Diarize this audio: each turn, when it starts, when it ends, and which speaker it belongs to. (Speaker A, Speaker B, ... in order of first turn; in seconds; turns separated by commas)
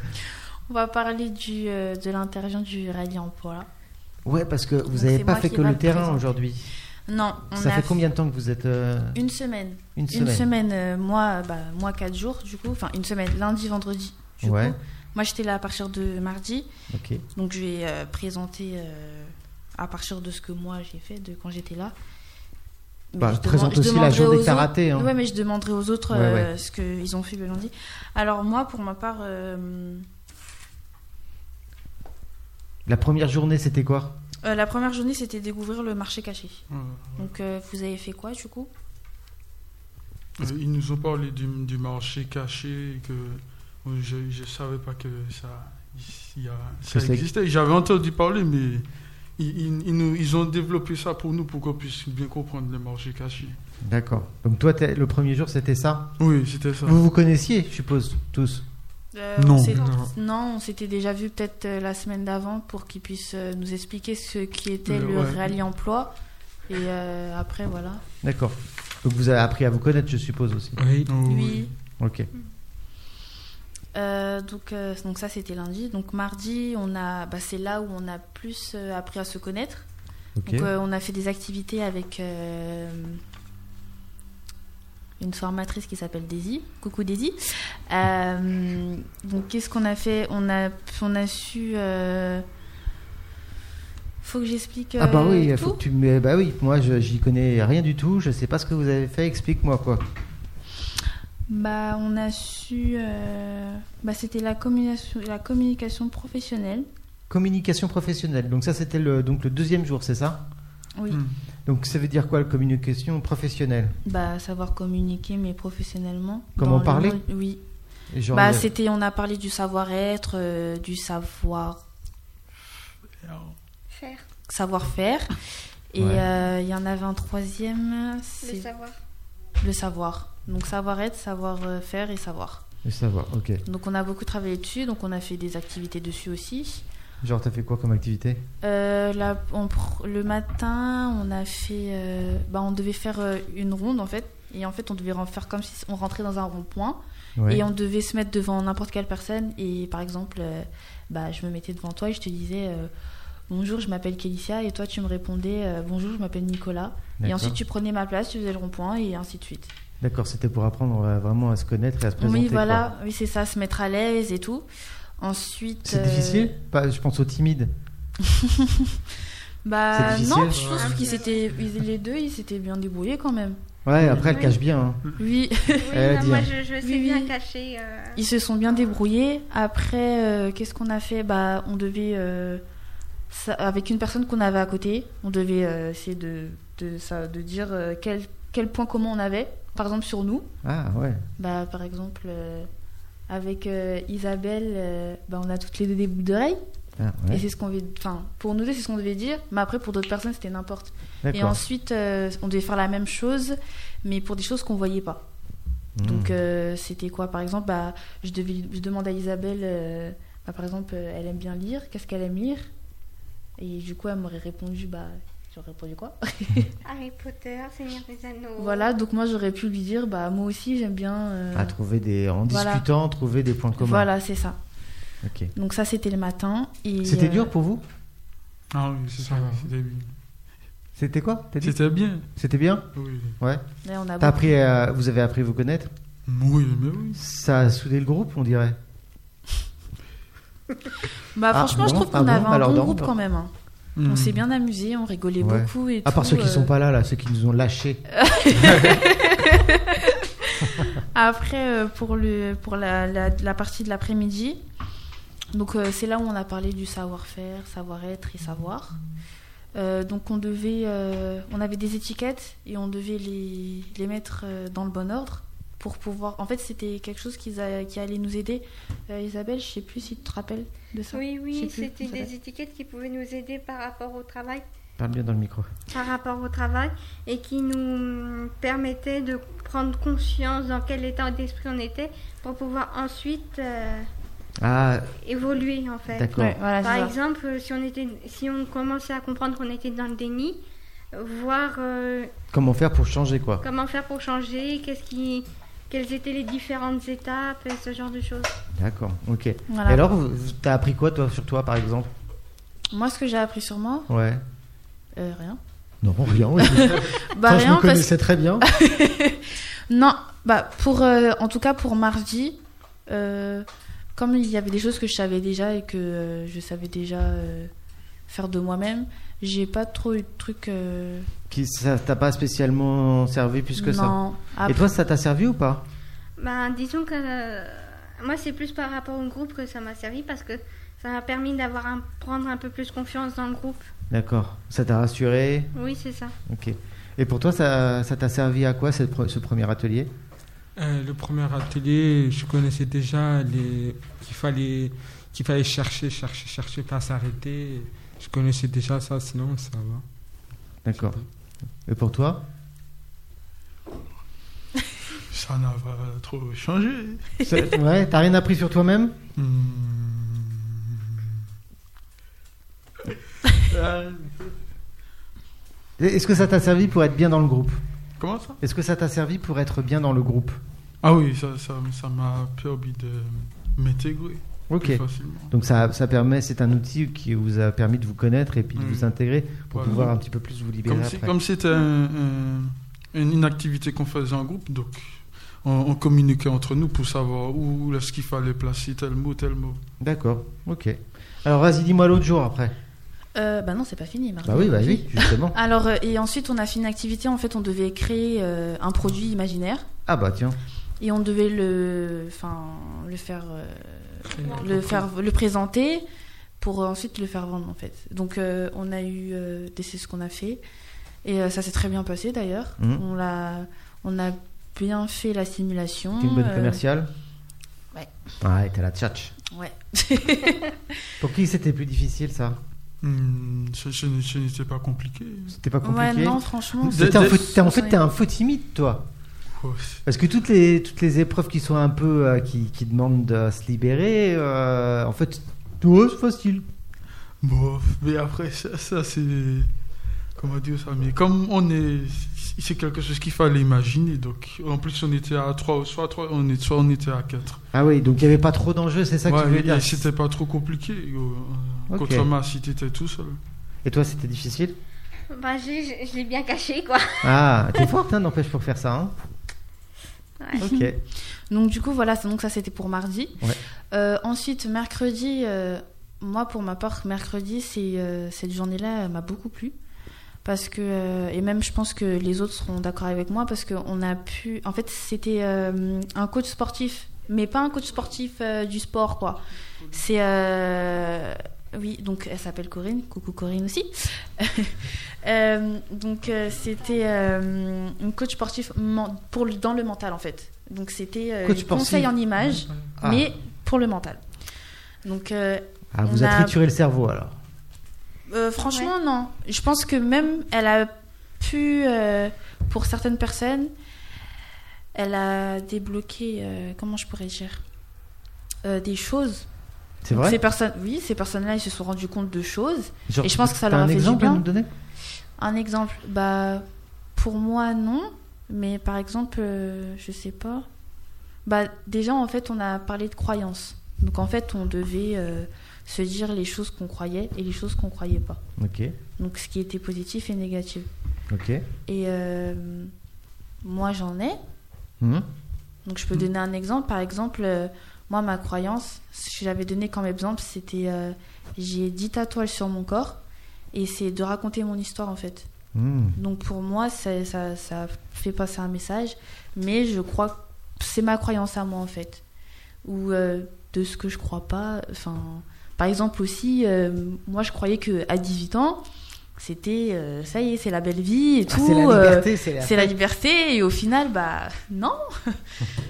Speaker A: 0.7-3.7, Speaker B: 4.2-6.7, Speaker A: 4.9-6.3, Speaker A: 7.1-8.0, Speaker B: 7.5-9.2, Speaker A: 9.1-16.7, Speaker B: 10.0-10.4, Speaker B: 14.4-14.8, Speaker B: 16.9-17.2, Speaker A: 17.4-21.9, Speaker A: 23.1-30.1, Speaker B: 23.2-25.1, Speaker B: 26.1-26.5, Speaker B: 32.9-34.2, Speaker A: 34.4-36.6, Speaker C: 36.7-37.3, Speaker A: 37.2-38.7, Speaker C: 40.4-48.9, Speaker B: 46.9-47.2, Speaker C: 49.4-53.6, Speaker B: 53.9-56.1, Speaker C: 56.2-57.0, Speaker B: 56.8-58.6, Speaker A: 59.1-66.1, Speaker C: 59.4-59.8, Speaker D: 59.8-60.1, Speaker C: 64.9-65.5, Speaker A: 66.7-68.0, Speaker B: 68.2-70.8, Speaker D: 70.8-71.1, Speaker C: 71.1-71.7, Speaker A: 71.2-71.7, Speaker B: 72.0-72.3, Speaker A: 73.9-79.9, Speaker B: 80.4-80.7, Speaker A: 80.5-83.2, Speaker A: 85.2-92.5, Speaker A: 94.2-95.8, Speaker B: 95.0-100.0, Speaker A: 101.5-106.9, Speaker B: 107.3-110.4, Speaker C: 111.1-111.4, Speaker B: 111.7-114.0, Speaker A: 114.0-117.6, Speaker B: 116.6-117.2, Speaker B: 118.1-118.7, Speaker A: 118.3-121.8, Speaker C: 123.2-123.6, Speaker E: 123.9-124.3, Speaker A: 124.5-125.4, Speaker A: 125.9-128.7, Speaker B: 126.0-126.2, Speaker E: 128.4-129.0, Speaker A: 129.6-132.6, Speaker B: 132.8-133.6, Speaker A: 133.6-136.8, Speaker B: 137.2-138.4, Speaker A: 138.6-152.9, Speaker B: 147.4-147.6, Speaker A: 153.5-159.7, Speaker B: 157.2-157.6, Speaker B: 160.0-162.9, Speaker A: 162.2-164.6, Speaker A: 165.2-166.6, Speaker B: 165.8-167.7, Speaker A: 168.2-169.0, Speaker A: 169.6-174.5, Speaker B: 169.9-170.7, Speaker C: 170.4-171.6, Speaker E: 170.8-171.4, Speaker B: 173.8-175.0, Speaker A: 175.2-176.1, Speaker E: 175.8-178.2, Speaker B: 175.9-176.5, Speaker A: 176.8-177.3, Speaker A: 178.2-182.6, Speaker A: 183.3-190.5, Speaker B: 190.6-191.2, Speaker A: 191.4-192.7, Speaker A: 193.3-196.6, Speaker B: 197.0-197.4, Speaker A: 197.3-205.2, Speaker B: 201.2-201.6, Speaker B: 206.0-206.3, Speaker A: 206.0-212.6, Speaker A: 213.6-216.7, Speaker E: 216.8-218.9, Speaker A: 218.6-221.7, Speaker B: 221.6-224.1, Speaker A: 222.5-222.8, Speaker A: 223.8-224.6, Speaker B: 225.2-225.5, Speaker A: 225.6-227.5, Speaker B: 227.0-227.8, Speaker C: 228.7-230.1, Speaker D: 229.2-229.7, Speaker B: 231.0-232.9, Speaker C: 231.6-232.3, Speaker C: 232.9-233.4, Speaker A: 233.8-234.6, Speaker B: 234.2-235.9, Speaker C: 236.3-237.2, Speaker B: 237.1-238.8, Speaker A: 241.3-243.5, Speaker B: 241.5-243.1, Speaker C: 244.0-244.4, Speaker A: 244.1-246.7, Speaker B: 245.4-248.0, Speaker A: 248.1-254.6, Speaker A: 255.5-259.0, Speaker A: 259.8-272.3, Speaker E: 271.1-274.7, Speaker B: 275.0-275.7, Speaker E: 275.9-284.1, Speaker B: 284.6-285.1, Speaker E: 285.2-290.6, Speaker B: 286.1-286.6, Speaker A: 286.4-287.1, Speaker E: 291.1-292.3, Speaker B: 292.5-293.6, Speaker E: 293.6-298.6, Speaker B: 298.7-302.1, Speaker A: 299.7-300.0, Speaker A: 302.9-304.1, Speaker B: 304.1-304.4, Speaker A: 305.2-305.6, Speaker B: 306.0-308.7, Speaker A: 306.6-308.1, Speaker A: 308.6-317.7, Speaker A: 318.3-321.3, Speaker B: 321.5-325.8, Speaker A: 323.8-324.9, Speaker E: 326.4-333.9, Speaker B: 334.1-335.7, Speaker E: 335.7-336.4, Speaker B: 336.4-340.1, Speaker D: 340.8-350.0, Speaker B: 350.9-351.2, Speaker D: 350.9-351.2, Speaker B: 351.9-352.4, Speaker C: 355.2-357.3, Speaker B: 357.4-359.1, Speaker C: 359.4-361.4, Speaker C: 363.1-364.6, Speaker B: 366.0-367.8, Speaker C: 368.2-368.6, Speaker B: 368.6-370.6, Speaker C: 371.0-375.5, Speaker B: 374.7-381.3, Speaker C: 378.8-379.1, Speaker C: 379.7-380.1, Speaker C: 380.9-389.8, Speaker B: 390.0-392.7, Speaker A: 393.4-399.9, Speaker B: 394.4-395.6, Speaker B: 400.1-400.6, Speaker A: 401.0-406.0, Speaker D: 404.3-405.1, Speaker A: 406.6-410.6, Speaker A: 411.2-416.8, Speaker B: 416.2-417.1, Speaker B: 418.4-419.4, Speaker A: 419.5-420.8, Speaker B: 421.2-422.6, Speaker C: 423.0-425.6, Speaker B: 425.5-429.1, Speaker A: 425.8-428.0, Speaker C: 426.8-427.4, Speaker C: 429.6-430.0, Speaker B: 430.1-436.6, Speaker C: 437.4-439.7, Speaker C: 440.4-447.6, Speaker B: 447.7-450.1, Speaker C: 449.3-453.4, Speaker B: 451.9-452.3, Speaker B: 453.9-454.8, Speaker E: 455.3-457.4, Speaker B: 457.2-459.1, Speaker B: 460.6-461.0, Speaker A: 460.6-463.4, Speaker A: 463.9-469.7, Speaker A: 470.4-494.2, Speaker B: 491.4-492.1, Speaker D: 492.6-492.9, Speaker B: 493.0-493.3, Speaker A: 495.1-496.6, Speaker B: 495.9-497.4, Speaker A: 498.3-503.7, Speaker A: 504.9-507.6, Speaker A: 508.6-509.5, Speaker B: 510.0-510.4, Speaker A: 510.1-514.4, Speaker B: 513.1-514.7, Speaker A: 515.4-520.7, Speaker A: 521.5-528.4, Speaker B: 528.6-529.0, Speaker A: 529.2-530.9, Speaker B: 531.3-531.7, Speaker A: 531.9-532.9, Speaker A: 533.6-534.4, Speaker B: 535.0-535.3, Speaker A: 535.9-543.2, Speaker A: 543.7-545.5, Speaker B: 545.7-546.2, Speaker A: 546.2-552.2, Speaker A: 552.8-558.8, Speaker A: 559.4-565.4, Speaker B: 561.5-563.0